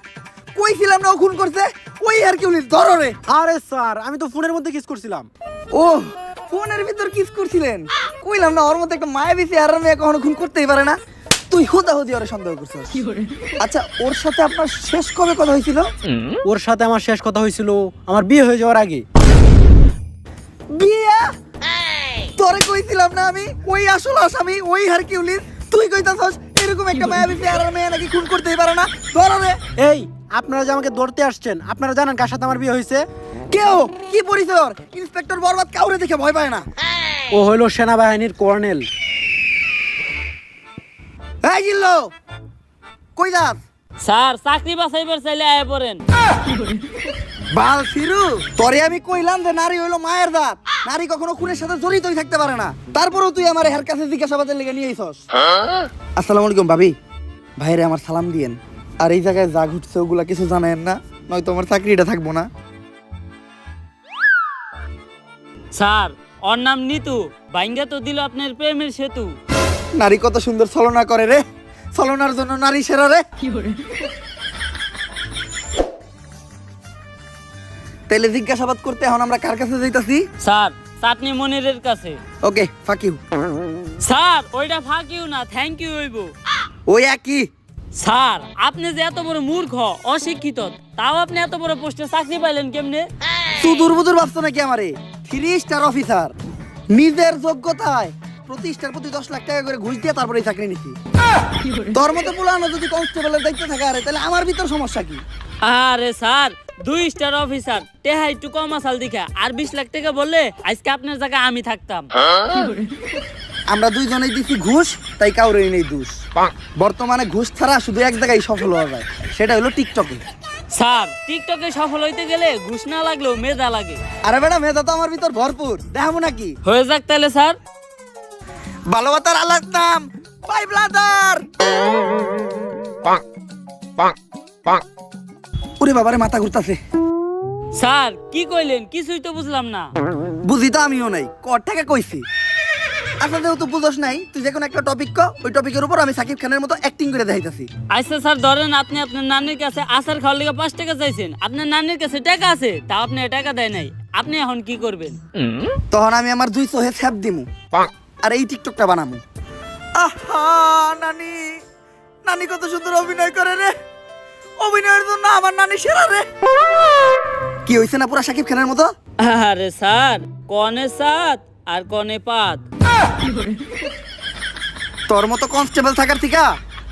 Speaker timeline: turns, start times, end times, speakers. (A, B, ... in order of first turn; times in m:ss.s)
0:00.5-0:03.2 A
0:03.3-0:05.3 B
0:05.7-0:11.0 A
0:11.5-0:13.0 A
0:13.6-0:15.9 A
0:16.4-0:19.0 B
0:20.7-0:21.3 A
0:22.4-0:29.6 A
0:29.8-0:33.0 B
0:33.5-0:36.6 A
0:37.3-0:38.9 B
0:41.4-0:42.1 A
0:43.2-0:43.6 A
0:44.0-0:46.0 C
0:47.5-0:55.2 A
0:56.2-0:56.9 A
0:57.6-1:02.5 A
1:05.7-1:09.3 C
1:10.0-1:11.4 A
1:11.9-1:13.2 A
1:18.1-1:20.2 A
1:20.4-1:22.2 C
1:22.4-1:23.2 A
1:24.0-1:26.3 C
1:26.9-1:27.4 A
1:27.9-1:33.0 C
1:33.6-1:36.3 A
1:36.9-1:41.0 A
1:41.9-1:45.2 A
1:45.6-1:52.1 C
1:53.7-1:56.2 A
1:56.8-2:00.2 A
2:00.7-2:04.0 C
2:04.2-2:06.6 A
2:06.6-2:07.6 C
2:08.9-2:11.4 A
2:15.8-2:16.8 A
2:17.7-2:19.9 C
2:20.4-2:22.2 A
2:23.2-2:27.7 A
2:27.9-2:35.2 C
2:35.9-2:37.5 A
2:38.2-2:39.2 A
2:40.0-2:41.6 A
2:42.2-2:43.7 A
2:44.6-2:46.2 A
2:47.6-2:48.9 A
2:49.2-2:52.6 C
2:55.1-2:56.5 A